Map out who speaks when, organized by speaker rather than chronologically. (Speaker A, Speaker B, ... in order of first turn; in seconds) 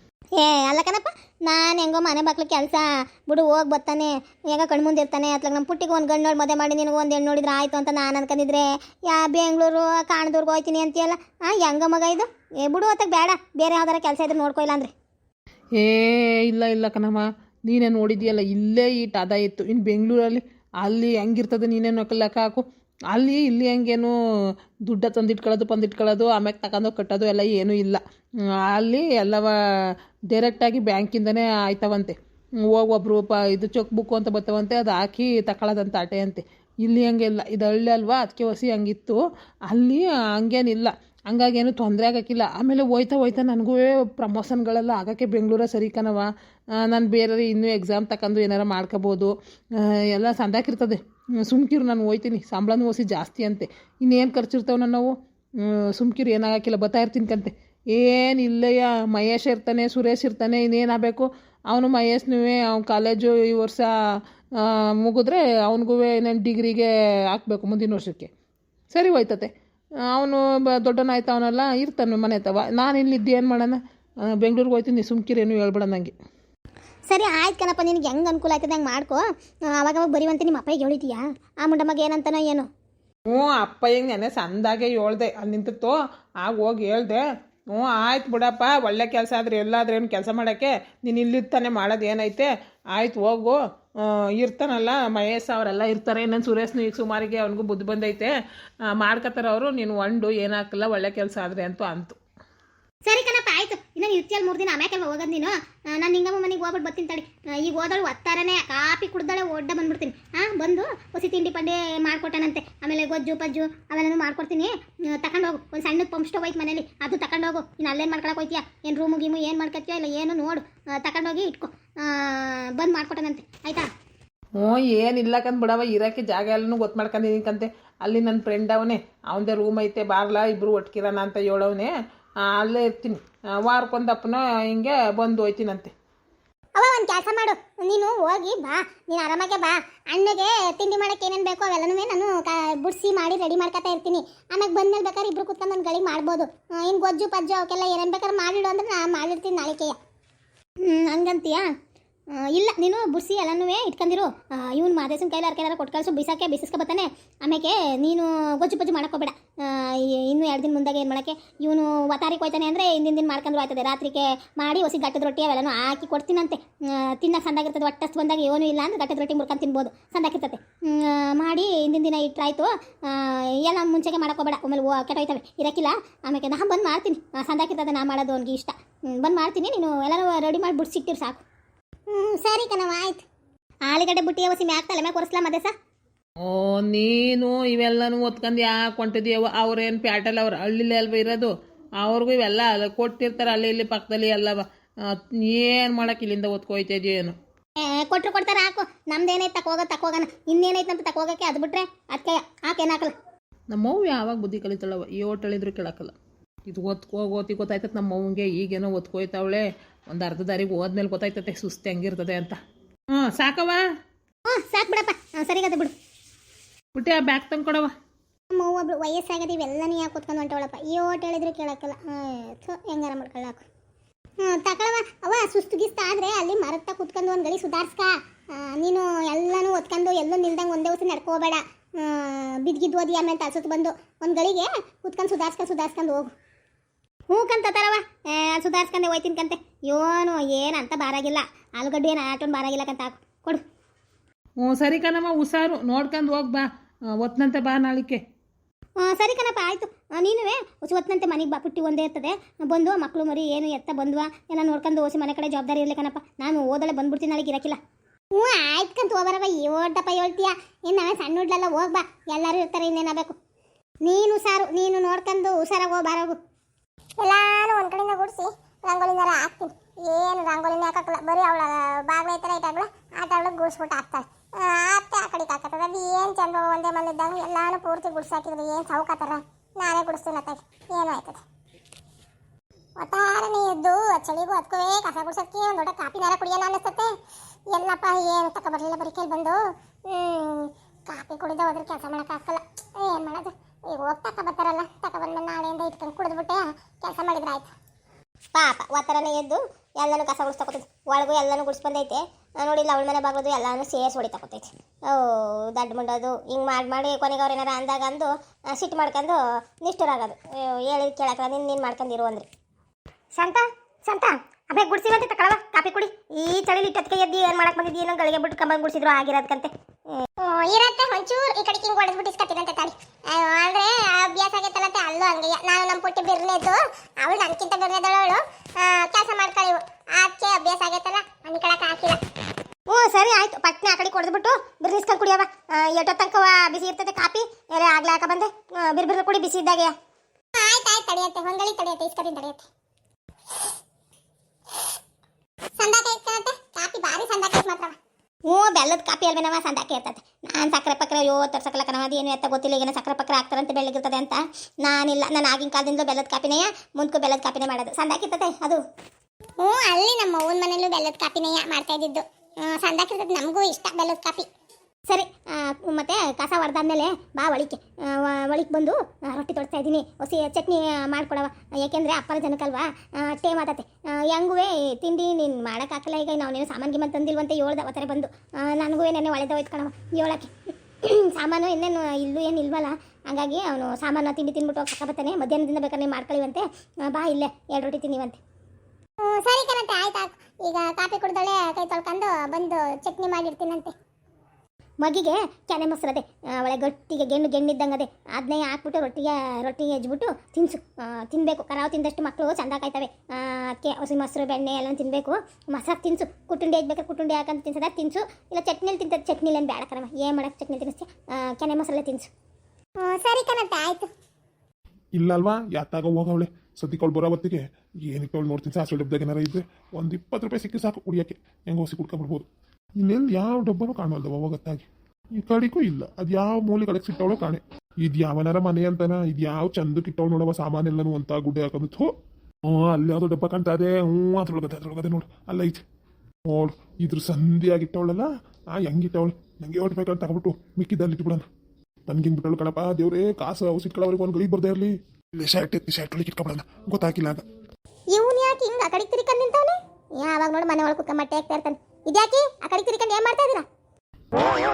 Speaker A: 0.4-14.9, 77.1-82.7, 103.1-123.9, 136.8-150.0, 150.8-151.7, 152.3-181.4, 182.1-183.2, 183.9-185.7, 197.8-203.1, 214.5-215.9, 218.5-223.6, 224.4-228.1, 228.7-236.3, 237.3-243.6, 249.0-257.8, 258.4-263.4, 264.0-266.4, 267.2-281.4, 283.0-287.1, 287.7-289.6, 290.1-297.7, 298.6-312.5, 313.4-319.7, 320.2-332.2, 332.9-339.9, 340.6-342.6, 345.8-347.9, 348.5-358.8, 359.6-364.5, 365.1-380.5, 381.0-388.4, 389.3-393.9, 395.0-412.3, 413.0-414.1, 448.1-453.6
Speaker B: 15.8-24.1, 24.9-63.9, 64.6-68.3, 68.9-69.5, 70.1-76.1, 83.3-98.3, 98.8-102.2, 124.6-135.9, 186.4-197.3, 203.7-206.1, 206.7-212.6, 213.2-213.8, 216.9-217.9, 244.6-246.7, 247.2-248.2
Speaker C: 415.2-422.5, 423.0-432.1, 432.7-435.8, 436.5-441.5, 442.1-447.4